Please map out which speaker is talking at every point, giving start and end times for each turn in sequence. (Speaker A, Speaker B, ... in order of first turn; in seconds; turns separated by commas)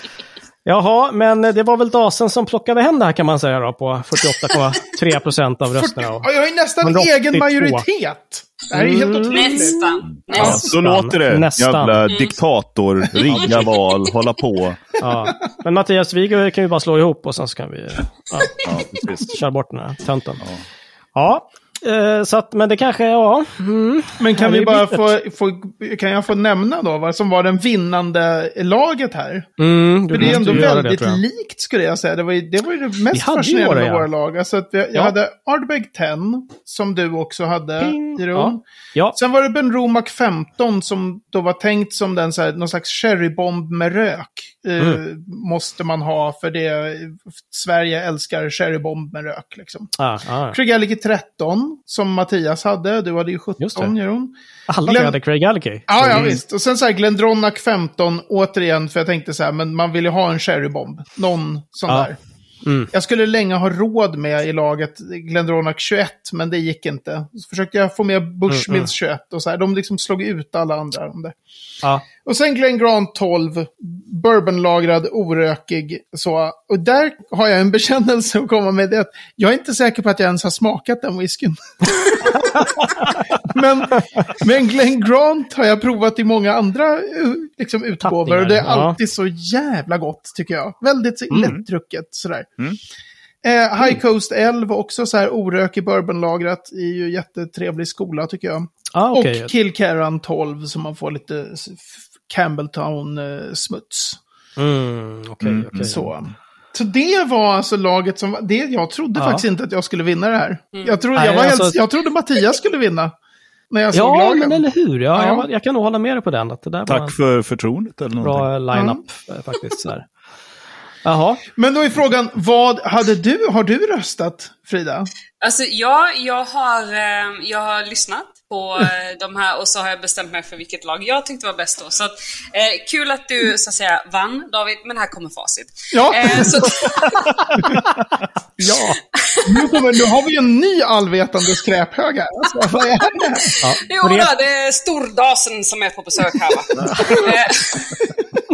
Speaker A: 0.6-6.3, Speaker B: 5.8-10.7, Speaker A: 6.8-7.8, Speaker A: 8.7-12.1, Speaker C: 9.3-10.7, Speaker D: 10.1-14.8, Speaker C: 12.1-12.4, Speaker C: 13.3-14.1, Speaker A: 15.0-18.5, Speaker D: 18.6-19.4, Speaker A: 19.3-20.4, Speaker A: 21.1-25.1, Speaker B: 24.2-29.5, Speaker A: 29.6-31.2, Speaker B: 30.1-38.6, Speaker D: 30.2-30.6, Speaker A: 33.1-34.1, Speaker A: 37.8-39.2, Speaker B: 39.1-50.0, Speaker A: 50.0-50.6, Speaker B: 50.5-55.2, Speaker A: 53.6-53.9, Speaker A: 54.7-56.4, Speaker B: 55.9-62.2, Speaker A: 62.6-62.9, Speaker B: 62.9-71.3, Speaker A: 68.5-68.9, Speaker B: 72.2-92.5, Speaker A: 82.5-83.1, Speaker A: 88.0-89.0, Speaker B: 93.4-104.2, Speaker A: 98.9-99.5, Speaker A: 104.6-106.1, Speaker D: 105.4-105.9, Speaker B: 105.8-113.1, Speaker A: 109.1-109.4, Speaker C: 110.7-111.1, Speaker A: 111.1-111.8, Speaker B: 113.7-115.5, Speaker A: 113.9-117.1, Speaker D: 116.9-118.5, Speaker A: 118.2-120.1, Speaker B: 118.7-119.0, Speaker A: 121.0-121.4, Speaker B: 121.5-125.1, Speaker C: 125.4-137.6, Speaker B: 135.9-136.7, Speaker A: 137.6-137.9, Speaker A: 138.6-139.0, Speaker C: 139.0-139.8, Speaker B: 139.4-143.6, Speaker C: 142.5-148.1, Speaker A: 143.6-144.3, Speaker A: 146.8-147.2, Speaker B: 146.8-147.2